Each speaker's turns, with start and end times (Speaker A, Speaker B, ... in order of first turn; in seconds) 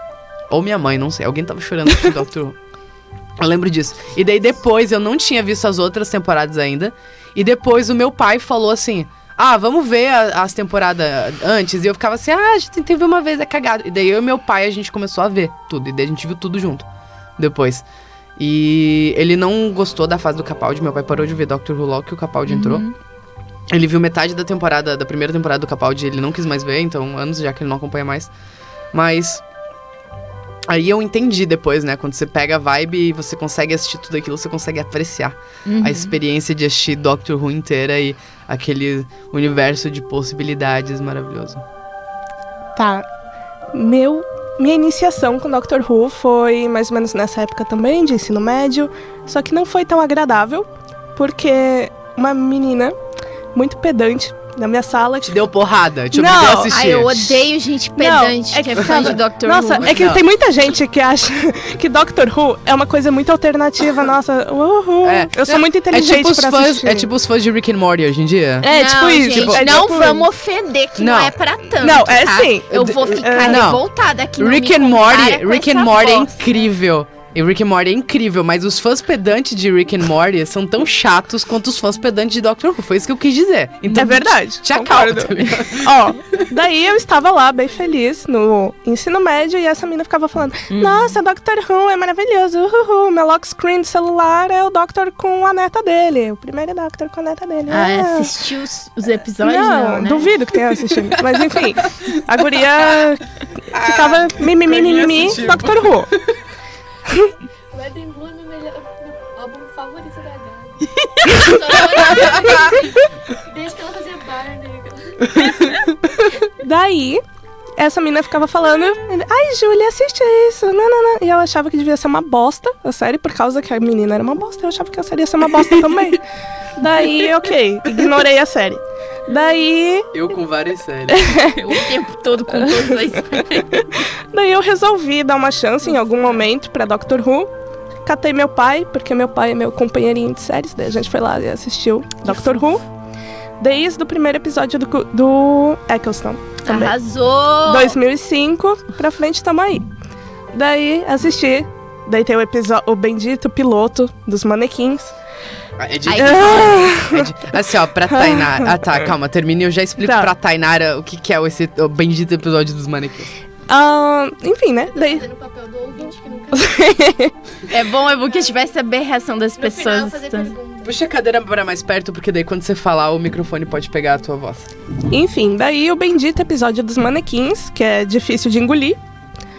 Speaker A: 0.5-2.5, 3.4-16.9, 17.4-17.8, 18.4-22.8, 23.7-28.3, 28.9-29.4, 30.7-41.6, 55.2-57.4, 58.8-59.1, 59.8-60.2, 65.0-68.7, 69.3-70.0, 71.0-71.3, 72.7-73.8, 74.4-86.4, 101.3-103.1, 103.7-106.3, 111.2-112.8, 115.3-115.8, 130.1-131.4, 155.8-163.3, 170.8-174.7
Speaker B: 22.5-22.9, 35.6-36.1, 56.7-60.0, 68.7-76.4, 90.7-91.2, 97.7-100.3, 131.5-133.9, 142.2-142.6, 146.6-147.9, 156.1-156.8, 167.7-170.5
Speaker C: 42.8-43.1, 43.7-53.0, 53.5-55.4, 56.1-56.8, 58.0-67.1, 68.6-70.3, 71.8-73.7, 83.9-98.3, 99.4-106.1, 116.6-117.2, 117.8-126.2, 126.8-130.1, 131.1-131.6, 132.7-132.9, 134.3-137.5, 138.0-142.8, 143.6-146.9, 147.6-149.9, 150.5-155.1, 156.2-157.3, 158.1-158.7, 160.0-160.3, 163.7-165.2, 166.5-167.3, 175.1-179.0
Speaker D: 107.7-115.3, 164.9-167.0, 168.1-168.7, 169.6-171.0